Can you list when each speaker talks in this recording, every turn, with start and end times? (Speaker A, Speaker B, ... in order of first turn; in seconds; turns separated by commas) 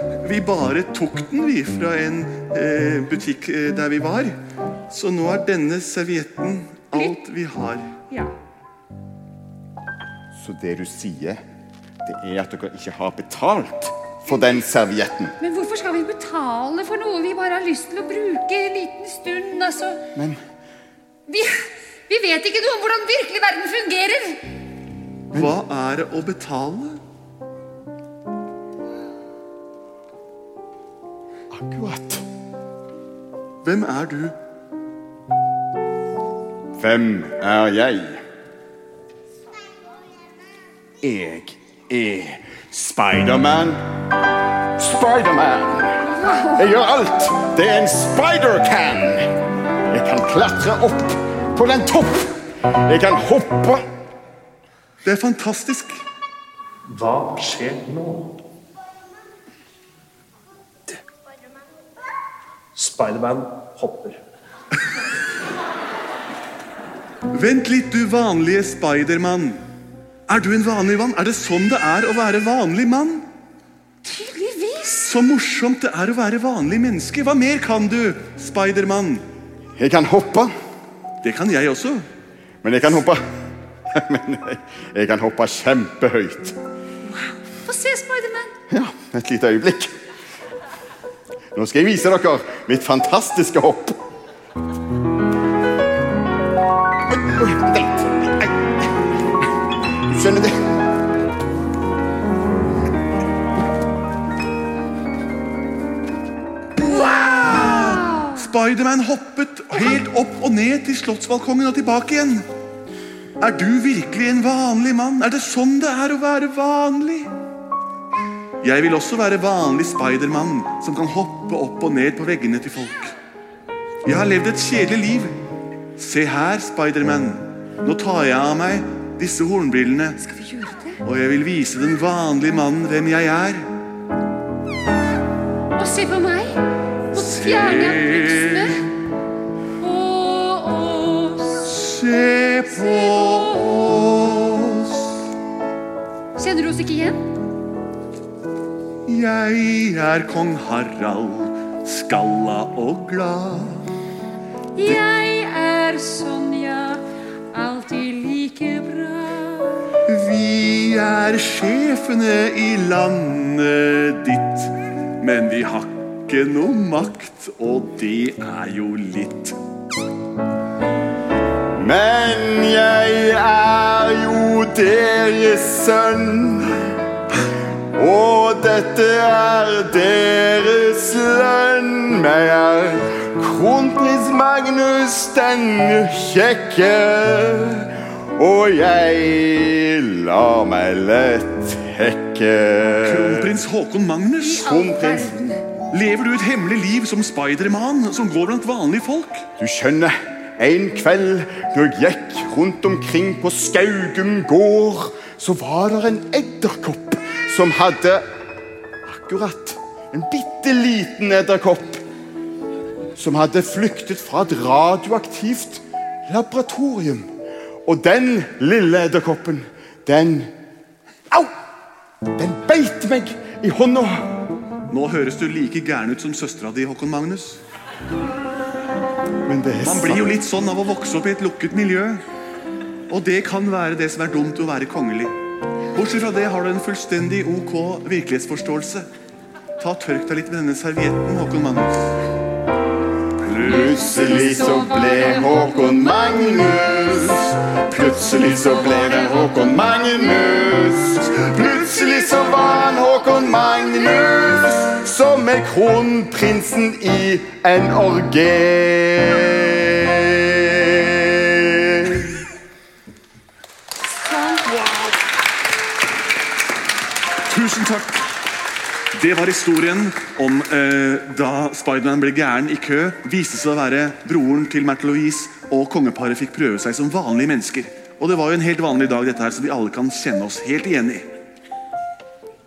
Speaker A: 0.2-4.4, Speaker A: 4.9-7.9, Speaker B: 10.3-11.4, Speaker B: 12.0-15.3, Speaker C: 15.4-20.0, Speaker C: 21.3-24.4, Speaker A: 25.3-27.0, Speaker B: 31.5-32.2, Speaker A: 33.6-34.4, Speaker B: 36.8-38.2, Speaker B: 41.0-43.8, Speaker B: 44.8-49.3, Speaker C: 46.1-46.7, Speaker B: 49.9-53.9, Speaker A: 55.0-56.0, Speaker D: 56.9-58.3, Speaker D: 62.7-64.2, Speaker A: 67.3-69.6, Speaker A: 70.3-73.3, Speaker C: 74.0-75.1, Speaker A: 75.0-79.2, Speaker B: 79.8-80.5, Speaker A: 81.2-82.1, Speaker B: 82.6-83.2, Speaker B: 83.9-86.6, Speaker C: 87.1-88.5, Speaker B: 88.7-89.9, Speaker B: 91.5-94.0, Speaker B: 97.1-98.8, Speaker B: 100.0-100.5, Speaker A: 106.8-112.5, Speaker C: 106.8-108.5, Speaker A: 113.4-117.3, Speaker A: 118.6-123.2, Speaker A: 124.0-125.4, Speaker A: 126.0-130.2, Speaker C: 130.2-131.0, Speaker A: 131.0-133.7, Speaker C: 135.8-136.6, Speaker C: 137.1-138.8, Speaker A: 137.1-138.8, Speaker C: 139.8-141.7, Speaker A: 141.6-145.1, Speaker C: 142.7-143.7, Speaker C: 146.4-147.2, Speaker A: 149.1-153.9, Speaker C: 154.8-157.0, Speaker C: 157.5-159.9, Speaker A: 160.1-169.6, Speaker B: 171.8-176.8, Speaker B: 178.0-193.6, Speaker A: 193.0-194.8, Speaker C: 194.4-195.6, Speaker B: 194.6-195.3, Speaker A: 195.9-199.5, Speaker B: 199.6-208.2, Speaker B: 209.1-212.0, Speaker B: 213.2-217.3, Speaker B: 217.8-220.5, Speaker B: 222.4-224.3, Speaker A: 224.9-227.6, Speaker B: 229.5-230.3, Speaker A: 229.8-232.2, Speaker A: 233.1-235.4, Speaker A: 235.9-239.1, Speaker A: 239.8-242.2, Speaker A: 243.4-244.5, Speaker C: 243.6-247.3, Speaker B: 243.7-262.4, Speaker A: 248.0-248.4, Speaker C: 248.5-249.8, Speaker C: 264.1-264.7, Speaker A: 264.7-265.2, Speaker A: 267.5-268.3, Speaker A: 269.1-281.3